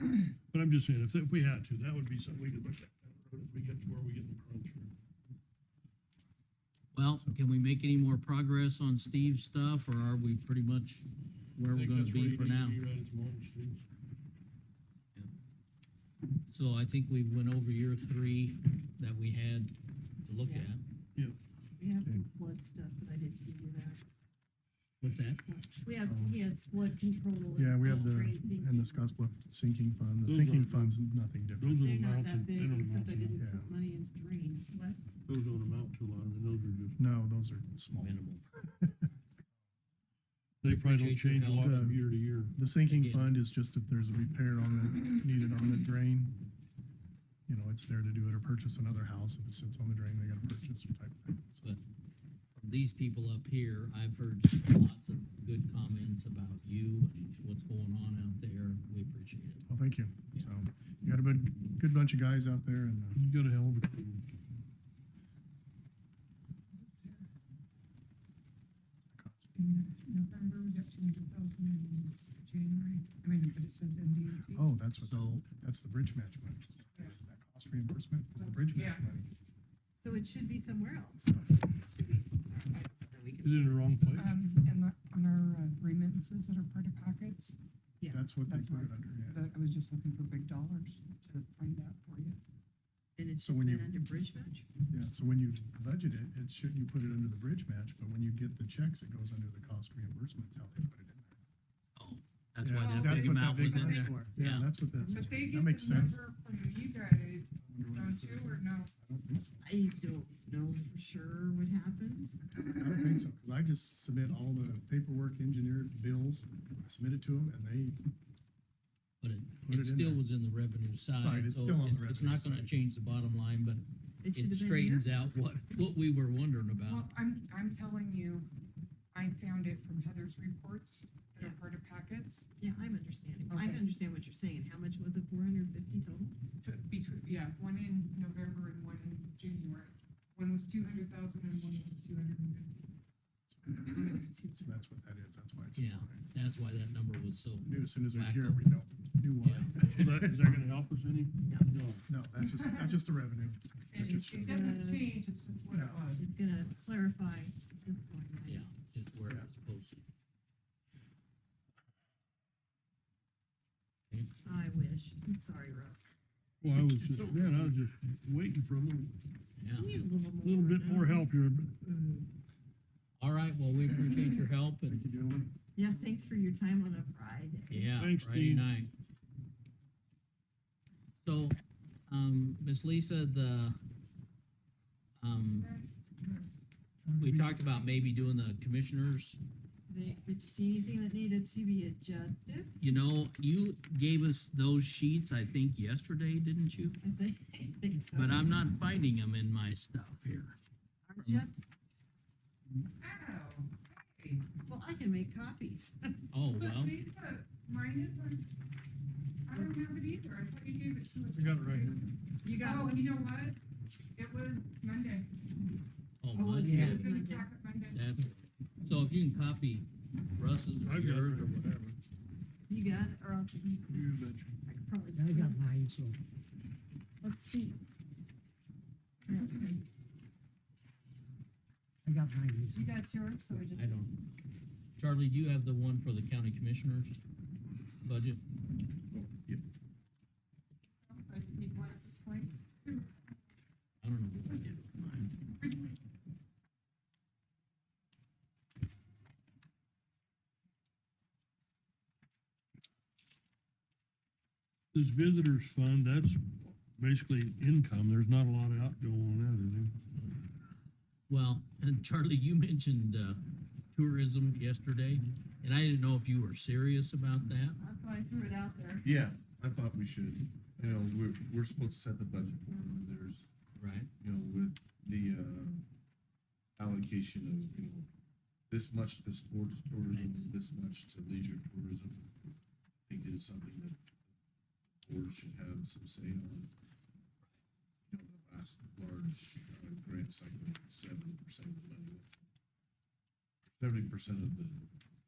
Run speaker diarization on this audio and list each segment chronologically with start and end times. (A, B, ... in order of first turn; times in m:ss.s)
0:00.5-0:04.9 A
0:06.9-0:11.0 B
0:11.6-0:12.8 B
0:11.6-0:13.8 A
0:16.5-0:20.8 B
0:20.4-0:20.7 C
0:21.8-0:24.0 C
0:22.0-0:22.3 D
0:25.0-0:25.4 B
0:25.4-0:29.1 C
0:26.0-0:26.4 D
0:27.5-0:31.8 D
0:30.2-0:31.0 A
0:31.6-0:33.4 A
0:31.8-0:35.0 C
0:33.3-0:33.7 D
0:35.2-0:37.0 A
0:37.0-0:39.1 D
0:38.0-0:38.4 B
0:40.6-0:42.5 A
0:40.7-0:41.8 B
0:41.6-0:46.4 D
0:42.9-0:43.4 B
0:47.5-0:51.6 D
0:52.5-0:59.7 B
0:59.7-1:03.2 D
1:03.2-1:04.3 A
1:06.8-1:07.3 E
1:09.1-1:09.5 D
1:09.6-1:14.7 E
1:14.5-1:19.3 D
1:15.0-1:15.4 B
1:18.5-1:19.1 E
1:20.0-1:23.3 C
1:22.0-1:22.3 E
1:22.8-1:27.5 E
1:23.4-1:24.3 A
1:28.0-1:28.3 C
1:28.1-1:29.4 D
1:28.4-1:32.4 E
1:33.2-1:34.7 C
1:33.4-1:33.9 D
1:34.9-1:41.4 D
1:42.0-1:44.7 B
1:42.6-1:46.2 D
1:42.7-1:44.3 E
1:45.0-1:48.9 E
1:47.6-1:49.7 D
1:49.6-1:52.4 C
1:52.6-1:58.0 D
1:59.2-2:07.1 B
1:59.7-2:00.3 D
2:01.2-2:02.7 D
2:04.2-2:05.1 C
2:06.8-2:08.5 E
2:09.1-2:12.5 E
2:12.6-2:16.4 C
2:13.5-2:13.8 E
2:16.6-2:22.8 E
2:23.5-2:24.0 D
2:23.8-2:24.8 C
2:24.5-2:26.3 D
2:25.8-2:28.7 B
2:27.6-2:30.3 D
2:29.4-2:29.9 B
2:29.8-2:32.0 A
2:32.1-2:34.8 D
2:32.6-2:32.9 E
2:33.9-2:36.3 E
2:34.4-2:35.2 C
2:35.7-2:36.0 D
2:36.2-2:38.7 C
2:38.4-2:40.0 B
2:44.4-2:46.1 C
2:46.6-2:49.2 A
2:49.6-2:49.9 B
2:49.8-2:51.3 C
2:50.4-2:51.8 A
2:53.2-2:55.0 B
2:54.8-2:55.6 D
2:55.8-2:57.9 C
2:57.7-2:58.9 B
2:57.9-2:58.7 A
3:01.2-3:01.6 B
3:02.1-3:03.8 B
3:05.2-3:05.7 B
3:05.5-3:06.5 E
3:07.1-3:07.7 E
3:07.2-3:09.4 B
3:09.9-3:12.8 C
3:12.8-3:17.0 B
3:17.0-3:18.5 C
3:18.1-3:20.6 B
3:21.1-3:21.6 C
3:21.2-3:21.4 B
3:23.0-3:24.5 E
3:24.6-3:26.2 C
3:26.3-3:27.0 B
3:26.5-3:28.5 E
3:29.5-3:33.6 E
3:31.3-3:32.1 A
3:32.4-3:33.2 C
3:34.2-3:35.4 E
3:36.2-3:37.1 B
3:36.3-3:37.5 C
3:36.6-3:37.0 F
3:36.8-3:38.1 E
3:37.9-3:41.8 B
3:40.8-3:42.0 A
3:42.7-3:44.0 C
3:43.9-3:44.6 A
3:44.6-3:45.6 C
3:45.2-3:46.2 F
3:47.2-3:47.8 C
3:49.3-3:49.7 C
3:49.4-3:49.8 E
3:52.1-3:52.9 F
3:52.7-3:54.0 C
3:53.7-3:54.2 B
3:55.0-3:57.2 B
3:58.0-3:58.4 B
3:59.1-3:59.6 G
4:01.2-4:02.6 C
4:02.7-4:03.2 E
4:04.0-4:05.4 B
4:05.6-4:06.0 E
4:14.9-4:20.0 A
4:21.3-4:27.8 B
4:27.8-4:29.1 C
4:29.0-4:33.4 G
4:33.8-4:34.1 B
4:34.2-4:35.8 G
4:36.8-4:38.1 G
4:38.7-4:42.3 G
4:40.1-4:40.5 B
4:43.1-4:44.1 G
4:45.0-4:46.7 G
4:48.1-4:52.5 G
4:53.8-4:54.9 G